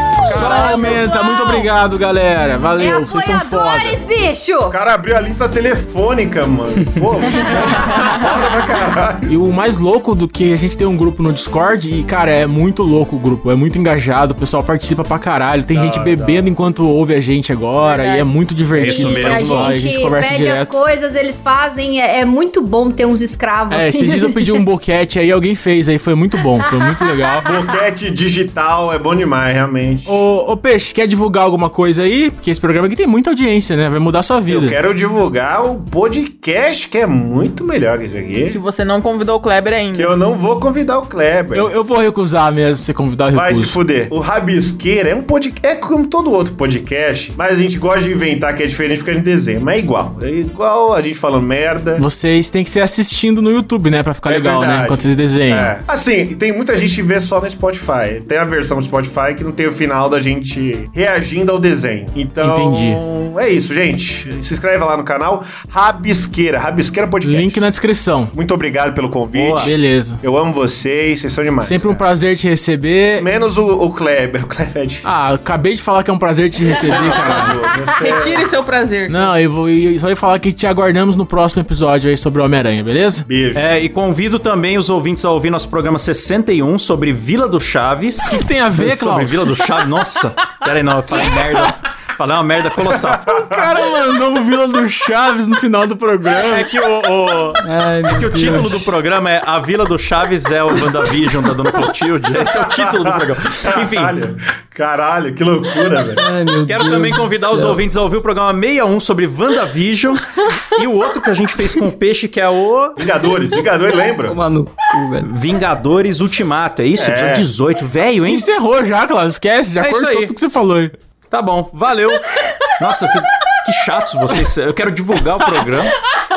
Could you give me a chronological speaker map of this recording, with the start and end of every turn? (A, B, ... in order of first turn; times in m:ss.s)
0:00.1-0:04.0 A
0:00.2-0:01.7 B
0:02.8-0:04.8 B
0:04.7-0:09.3 C
0:07.3-0:08.2 B
0:09.2-0:20.8 A
0:15.7-0:16.5 C
0:17.8-0:18.3 D
0:18.7-0:19.8 E
0:18.8-0:24.6 B
0:23.7-0:27.5 A
0:27.4-0:30.2 C
0:30.0-0:34.8 A
0:34.5-0:38.6 C
0:38.5-0:40.1 D
0:39.9-0:41.7 C
0:41.5-0:43.8 A
0:43.3-0:52.0 C
0:52.0-0:55.7 A
0:54.2-1:07.6 C
1:02.4-1:03.0 A
1:07.2-1:08.3 A
1:08.3-1:12.0 C
1:09.3-1:09.7 E
1:09.6-1:10.2 A
1:11.6-1:13.3 A
1:13.2-1:15.0 C
1:15.0-1:17.6 A
1:16.9-1:18.5 C
1:16.9-1:19.3 D
1:19.1-1:23.2 A
1:23.3-1:23.7 C
1:23.5-1:33.3 E
1:28.2-1:29.6 A
1:31.1-1:31.4 B
1:33.3-1:33.6 C
1:33.3-1:36.7 A
1:36.3-1:44.1 E
1:37.6-1:38.9 F
1:42.3-1:46.2 C
1:46.1-1:47.8 F
1:46.6-1:53.0 E
1:53.0-1:54.4 C
1:54.2-1:55.3 F
1:55.2-1:58.5 E
1:57.0-1:57.5 C
1:58.2-2:00.9 A
1:59.8-2:00.3 E
2:01.3-2:02.2 E
2:02.8-2:05.9 E